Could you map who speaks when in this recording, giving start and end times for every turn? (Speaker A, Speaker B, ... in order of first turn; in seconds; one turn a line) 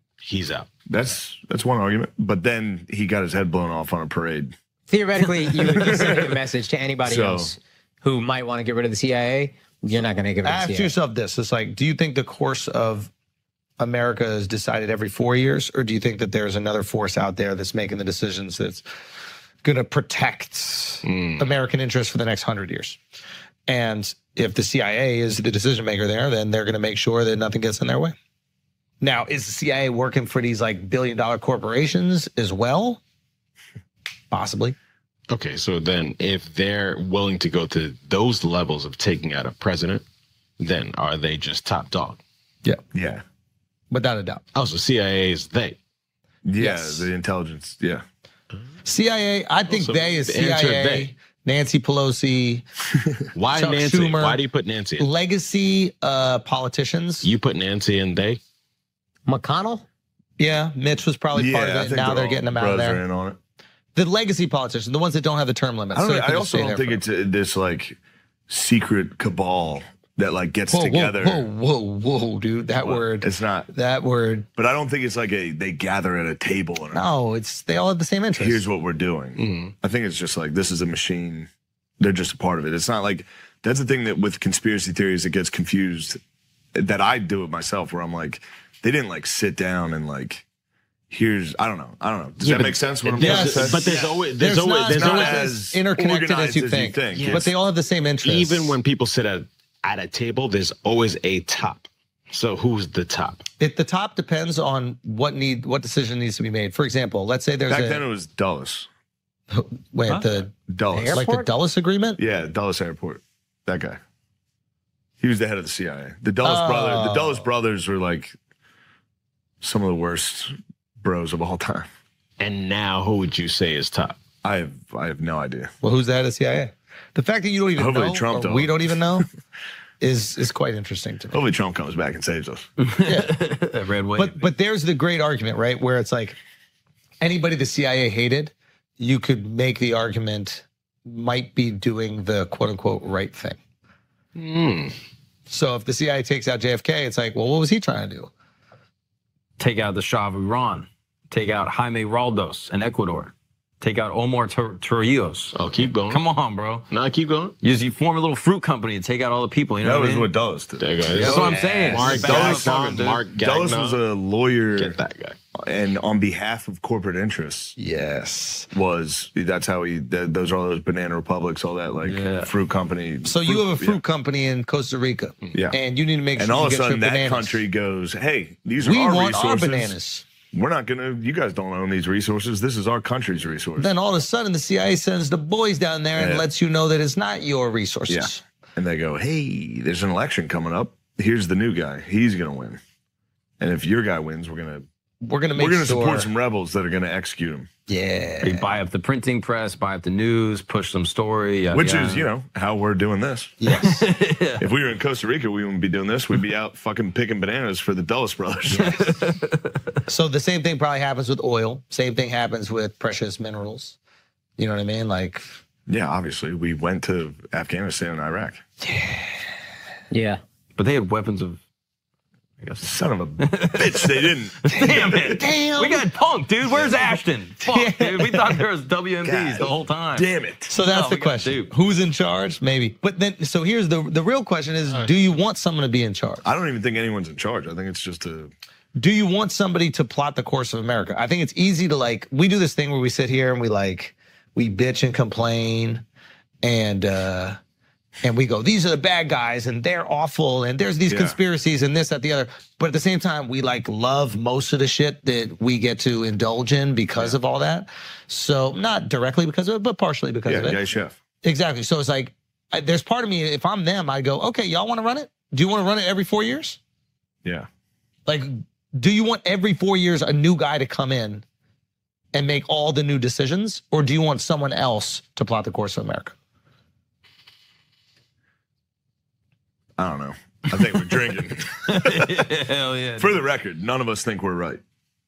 Speaker A: 0.2-0.7
Speaker B: 0.9-4.5
Speaker C: 4.9-10.9
Speaker B: 5.6-6.4
Speaker B: 7.0-7.5
Speaker D: 10.4-13.1
Speaker D: 13.8-18.8
Speaker D: 19.6-23.0
Speaker A: 21.0-21.4
Speaker D: 23.7-28.1
Speaker D: 29.0-33.0
Speaker D: 34.3-34.8
Speaker A: 35.3-40.0
Speaker A: 40.6-42.2
Speaker B: 42.9-43.2
Speaker D: 43.9-44.4
Speaker A: 44.5-45.8
Speaker B: 46.4-48.0
Speaker D: 46.6-47.1
Speaker D: 48.8-52.6
Speaker A: 49.7-51.1
Speaker A: 53.3-55.1
Speaker D: 53.5-54.4
Speaker D: 55.0-57.3
Speaker A: 57.2-58.4
Speaker C: 59.2-59.8
Speaker D: 60.4-63.0
Speaker B: 61.3-63.4
Speaker D: 63.9-67.0
Speaker B: 65.9-68.0
Speaker B: 68.5-71.5
Speaker D: 70.7-74.5
Speaker B: 72.8-73.7
Speaker B: 74.6-77.1
Speaker D: 76.9-78.6
Speaker B: 78.4-81.5
Speaker A: 79.4-79.7
Speaker B: 82.0-86.2
Speaker B: 86.7-90.4
Speaker B: 91.1-94.1
Speaker A: 92.4-95.5
Speaker D: 93.2-93.8
Speaker D: 94.4-98.8
Speaker B: 94.8-97.5
Speaker A: 97.1-97.5
Speaker A: 98.2-103.4
Speaker D: 103.6-108.0
Speaker B: 107.7-108.9
Speaker D: 109.5-110.5
Speaker B: 110.7-111.2
Speaker C: 110.9-111.5
Speaker D: 111.1-112.2
Speaker B: 112.2-114.0
Speaker B: 115.2-118.3
Speaker D: 116.4-117.4
Speaker B: 119.6-121.9
Speaker A: 122.4-124.2
Speaker B: 124.4-125.7
Speaker D: 125.8-129.3
Speaker B: 127.8-129.2
Speaker D: 130.0-131.4
Speaker B: 131.3-132.7
Speaker E: 132.8-134.5
Speaker D: 133.0-133.4
Speaker D: 134.1-136.4
Speaker D: 137.2-143.6
Speaker A: 144.3-144.9
Speaker D: 145.5-148.3
Speaker E: 149.6-156.9
Speaker A: 155.5-156.2
Speaker A: 156.9-157.6
Speaker E: 157.6-160.3
Speaker B: 159.8-165.0
Speaker A: 160.8-164.0
Speaker E: 161.2-163.2
Speaker A: 164.8-165.4
Speaker B: 165.6-167.8
Speaker D: 167.8-168.7
Speaker B: 168.7-174.0
Speaker E: 172.1-172.5
Speaker D: 173.2-177.6
Speaker B: 175.5-175.8
Speaker B: 176.4-179.9
Speaker D: 178.8-180.2
Speaker B: 180.5-183.9
Speaker D: 183.8-188.4
Speaker B: 186.2-186.5
Speaker B: 188.1-192.8
Speaker B: 193.6-194.9
Speaker D: 195.2-196.3
Speaker B: 195.5-197.7
Speaker D: 197.9-198.7
Speaker E: 198.4-202.2
Speaker B: 201.7-203.6
Speaker D: 203.6-204.0
Speaker E: 203.7-204.6
Speaker B: 204.6-209.0
Speaker E: 208.7-209.7
Speaker D: 210.1-214.0
Speaker D: 214.6-215.5
Speaker B: 215.9-218.6
Speaker C: 220.1-220.4
Speaker E: 220.8-221.6
Speaker E: 222.6-222.9
Speaker B: 222.8-225.4
Speaker E: 223.4-224.0
Speaker E: 224.6-231.7
Speaker D: 224.8-226.0
Speaker B: 226.7-227.1
Speaker D: 227.7-228.5
Speaker B: 229.2-230.7
Speaker D: 230.7-236.4
Speaker B: 236.4-238.5
Speaker D: 239.0-246.0
Speaker D: 246.6-247.6
Speaker D: 248.2-260.8
Speaker B: 251.1-251.4
Speaker B: 260.4-261.1
Speaker D: 261.4-266.8
Speaker D: 268.2-271.4
Speaker D: 272.3-276.3
Speaker B: 280.0-282.3
Speaker E: 281.9-283.4
Speaker B: 283.2-284.8